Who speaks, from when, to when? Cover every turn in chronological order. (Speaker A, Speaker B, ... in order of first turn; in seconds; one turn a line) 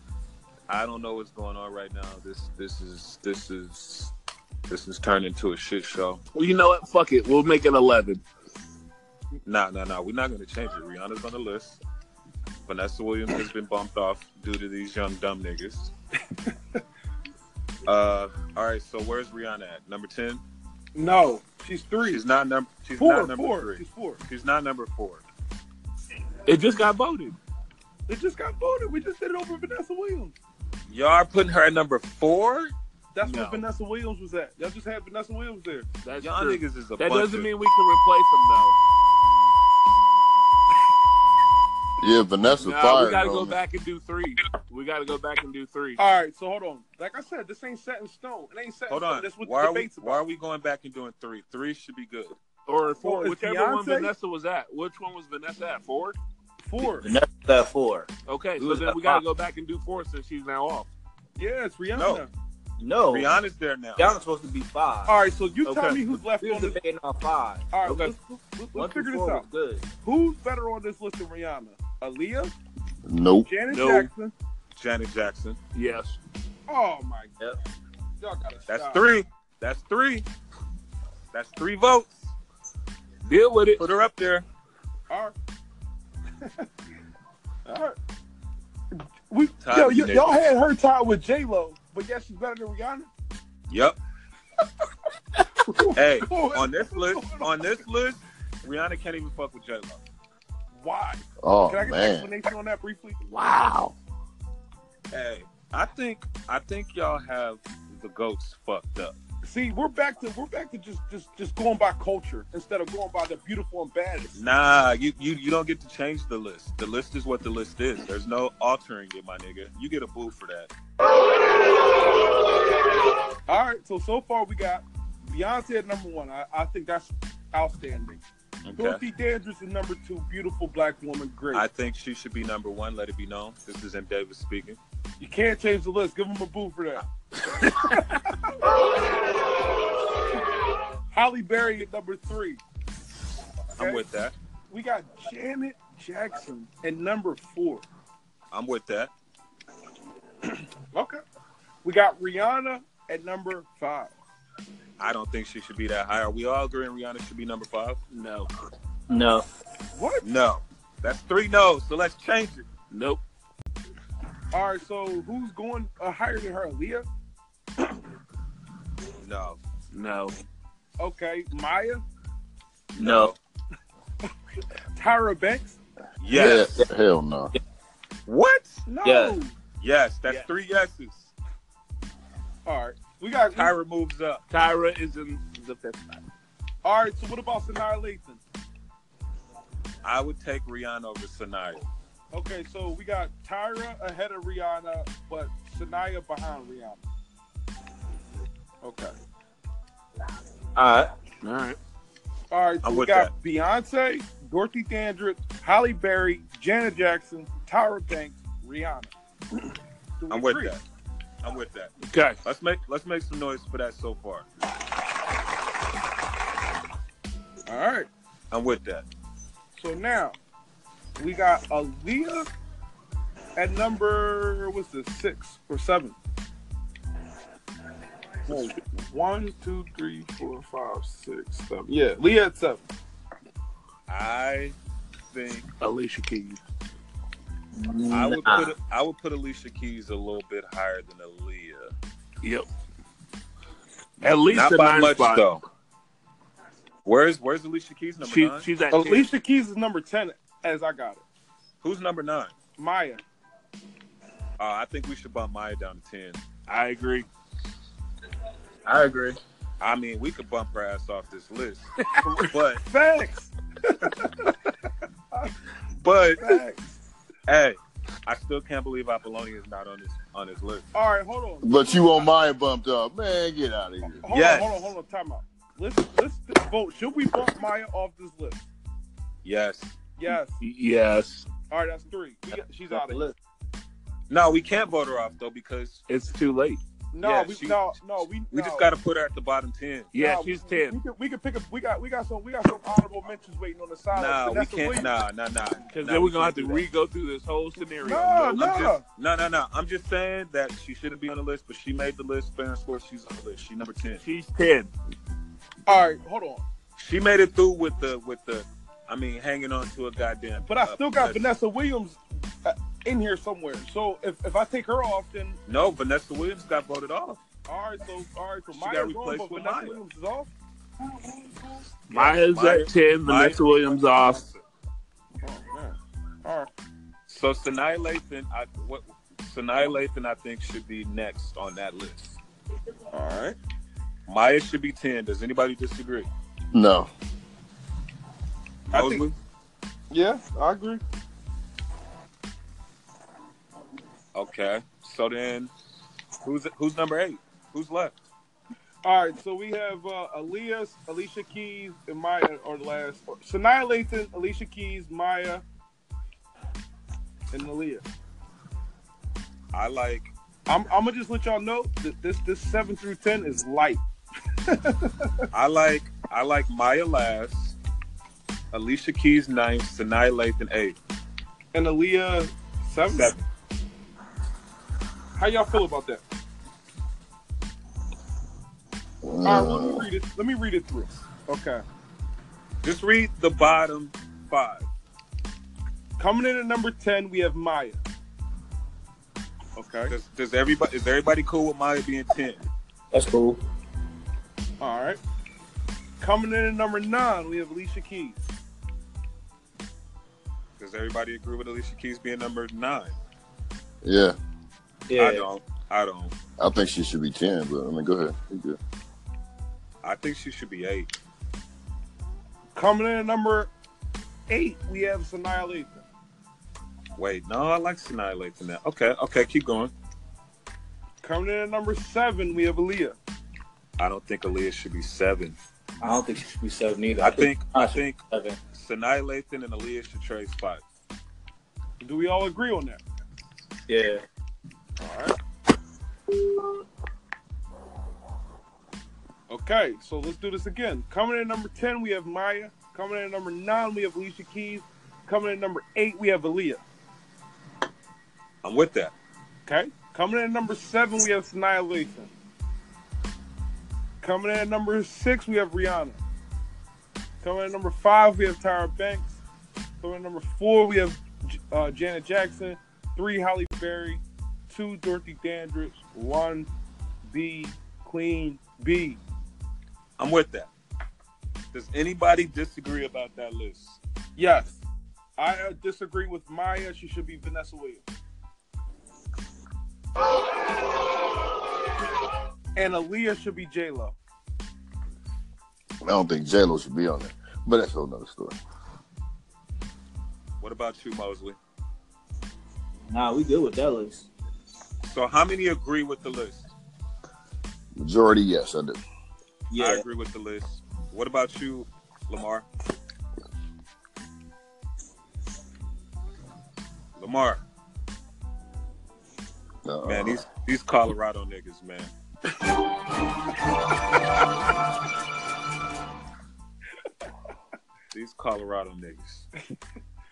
Speaker A: 0.7-4.1
Speaker A: 4.7-6.2
Speaker B: 6.3-8.2
Speaker A: 9.4-11.8
Speaker A: 12.7-15.9
Speaker A: 17.8-20.4
Speaker C: 20.9-22.2
Speaker A: 22.0-25.2
Speaker C: 23.0-24.2
Speaker B: 26.4-27.4
Speaker C: 28.1-30.3
Speaker A: 30.9-33.6
Speaker C: 33.1-35.9
Speaker B: 36.0-38.8
Speaker A: 36.2-37.5
Speaker D: 42.0-43.6
Speaker B: 42.6-46.0
Speaker C: 46.0-50.2
Speaker A: 48.9-52.4
Speaker B: 52.6-56.2
Speaker C: 53.0-54.1
Speaker C: 56.6-57.1
Speaker E: 56.8-59.2
Speaker B: 58.2-60.9
Speaker C: 61.4-62.3
Speaker A: 61.9-62.2
Speaker E: 62.8-63.3
Speaker A: 63.1-64.1
Speaker E: 64.0-65.1
Speaker C: 65.1-66.8
Speaker E: 66.4-68.1
Speaker C: 67.7-69.5
Speaker E: 68.7-69.9
Speaker C: 70.0-72.5
Speaker D: 73.0-73.5
Speaker C: 73.4-74.3
Speaker B: 73.7-74.1
Speaker A: 74.7-75.6
Speaker B: 75.7-76.2
Speaker C: 76.7-77.4
Speaker C: 78.2-79.0
Speaker A: 78.7-80.3
Speaker A: 81.3-82.3
Speaker B: 83.2-83.8
Speaker A: 83.8-84.5
Speaker C: 85.1-85.3
Speaker C: 86.4-86.7
Speaker C: 87.7-88.0
Speaker C: 88.9-93.1
Speaker A: 89.6-90.4
Speaker A: 93.7-94.0
Speaker C: 95.6-97.7
Speaker A: 95.9-100.0
Speaker C: 100.7-103.2
Speaker D: 101.4-102.3
Speaker B: 103.2-103.9
Speaker A: 105.1-109.2
Speaker C: 109.4-114.4
Speaker A: 114.3-120.7
Speaker C: 123.5-128.2
Speaker A: 128.6-129.0
Speaker C: 128.8-131.7
Speaker A: 131.5-134.8
Speaker C: 135.2-137.0
Speaker C: 137.7-138.3
Speaker C: 141.1-142.6
Speaker A: 143.8-144.3
Speaker C: 143.8-144.0
Speaker C: 144.7-147.8
Speaker A: 148.5-149.1
Speaker C: 150.9-151.2
Speaker C: 151.8-154.1
Speaker A: 155.0-158.0
Speaker B: 158.1-158.5
Speaker E: 159.1-159.4
Speaker C: 159.9-160.2
Speaker A: 160.2-162.7
Speaker B: 162.9-163.2
Speaker C: 164.5-167.0
Speaker A: 169.2-169.6
Speaker B: 169.9-170.3
Speaker C: 171.0-172.0
Speaker E: 172.9-173.3
Speaker A: 172.9-173.4
Speaker C: 174.9-175.8
Speaker A: 176.2-176.7
Speaker D: 176.3-177.5
Speaker E: 176.3-176.8
Speaker A: 178.2-178.9
Speaker C: 178.9-179.5
Speaker E: 179.0-179.4
Speaker A: 179.8-181.3
Speaker C: 182.6-183.7
Speaker A: 183.5-184.4
Speaker B: 184.5-186.2
Speaker C: 186.8-188.4
Speaker A: 190.0-191.8
Speaker C: 192.3-197.0
Speaker C: 198.8-199.1
Speaker E: 200.7-201.1
Speaker B: 201.4-201.8
Speaker C: 202.5-209.1
Speaker A: 202.8-203.3
Speaker C: 210.2-210.7
Speaker A: 210.3-210.8
Speaker A: 211.4-211.9
Speaker B: 212.0-212.4
Speaker A: 212.4-214.5
Speaker C: 217.7-218.1
Speaker A: 218.5-219.1
Speaker C: 219.7-220.3
Speaker C: 221.2-222.5
Speaker C: 223.6-226.2
Speaker C: 228.5-232.8
Speaker A: 234.1-234.8
Speaker A: 235.3-235.7
Speaker B: 235.8-236.6
Speaker E: 237.8-238.7
Speaker A: 238.1-241.9
Speaker B: 244.2-245.4
Speaker A: 244.5-245.6
Speaker A: 247.0-248.7
Speaker B: 248.2-249.2
Speaker C: 248.9-251.2
Speaker A: 251.8-252.5
Speaker C: 252.8-253.2
Speaker A: 254.6-256.4
Speaker B: 256.7-257.3
Speaker E: 258.9-259.4
Speaker A: 259.8-262.8
Speaker C: 262.8-264.5
Speaker A: 266.0-266.6
Speaker C: 266.4-266.9
Speaker A: 267.5-270.9
Speaker C: 270.9-272.3
Speaker D: 271.6-274.2
Speaker C: 274.1-278.6
Speaker A: 274.3-274.9
Speaker A: 279.4-279.9
Speaker C: 280.2-280.6
Speaker B: 280.6-281.5
Speaker C: 281.7-283.2
Speaker E: 282.6-283.3
Speaker A: 284.3-286.0
Speaker B: 286.1-286.8
Speaker C: 287.1-288.9
Speaker A: 287.2-288.0
Speaker A: 288.5-290.1
Speaker B: 290.1-291.0
Speaker C: 290.1-295.1
Speaker A: 294.1-296.8
Speaker B: 295.9-298.8
Speaker C: 298.0-299.0
Speaker A: 298.5-304.2
Speaker B: 304.2-304.9
Speaker C: 305.9-306.6
Speaker A: 307.0-311.4
Speaker C: 310.6-315.6
Speaker A: 315.7-317.4
Speaker C: 317.7-322.0
Speaker A: 318.7-320.0
Speaker B: 322.1-324.4
Speaker A: 322.1-324.6
Speaker C: 325.4-326.7
Speaker A: 327.3-332.4
Speaker C: 333.1-333.6
Speaker A: 334.2-336.3
Speaker D: 336.7-337.1
Speaker A: 338.9-339.4
Speaker C: 338.9-339.2
Speaker C: 340.1-341.0
Speaker A: 344.3-345.7
Speaker A: 346.4-348.1
Speaker C: 349.0-355.6
Speaker C: 357.5-358.0
Speaker A: 359.7-360.3
Speaker C: 360.7-364.0
Speaker C: 364.7-365.4
Speaker A: 365.5-367.8
Speaker A: 368.7-371.0
Speaker C: 371.7-373.3
Speaker A: 373.1-373.4
Speaker C: 375.4-376.2
Speaker D: 379.2-380.1
Speaker C: 379.4-381.8
Speaker A: 382.8-384.9
Speaker C: 386.2-388.0
Speaker C: 389.8-390.1
Speaker A: 390.1-392.6
Speaker E: 393.1-393.6
Speaker C: 394.8-395.2
Speaker C: 396.2-398.5
Speaker A: 400.8-403.2
Speaker D: 404.0-404.3
Speaker E: 405.1-405.4
Speaker A: 405.2-406.3
Speaker D: 406.6-408.8
Speaker A: 410.0-411.1
Speaker C: 412.7-413.7
Speaker C: 414.5-416.0
Speaker A: 417.1-419.9
Speaker C: 421.2-423.2
Speaker A: 424.0-425.6
Speaker E: 426.0-428.6
Speaker A: 427.1-430.8
Speaker C: 432.0-433.0
Speaker E: 433.9-434.2
Speaker C: 435.0-435.4
Speaker C: 439.5-446.8
Speaker A: 448.6-449.1
Speaker C: 449.7-452.3
Speaker C: 454.2-456.2
Speaker C: 457.4-459.3
Speaker C: 460.0-466.7
Speaker C: 467.2-469.2
Speaker A: 470.2-470.7
Speaker A: 471.7-474.0
Speaker C: 474.4-474.8
Speaker C: 475.4-478.0
Speaker C: 482.8-484.1
Speaker D: 486.0-488.6
Speaker A: 490.6-491.6
Speaker E: 493.1-494.3
Speaker A: 495.0-496.7
Speaker D: 497.9-499.0
Speaker E: 499.7-500.0
Speaker A: 499.8-502.7
Speaker A: 507.1-507.6
Speaker D: 509.8-510.4
Speaker A: 510.0-512.1
Speaker A: 518.1-519.5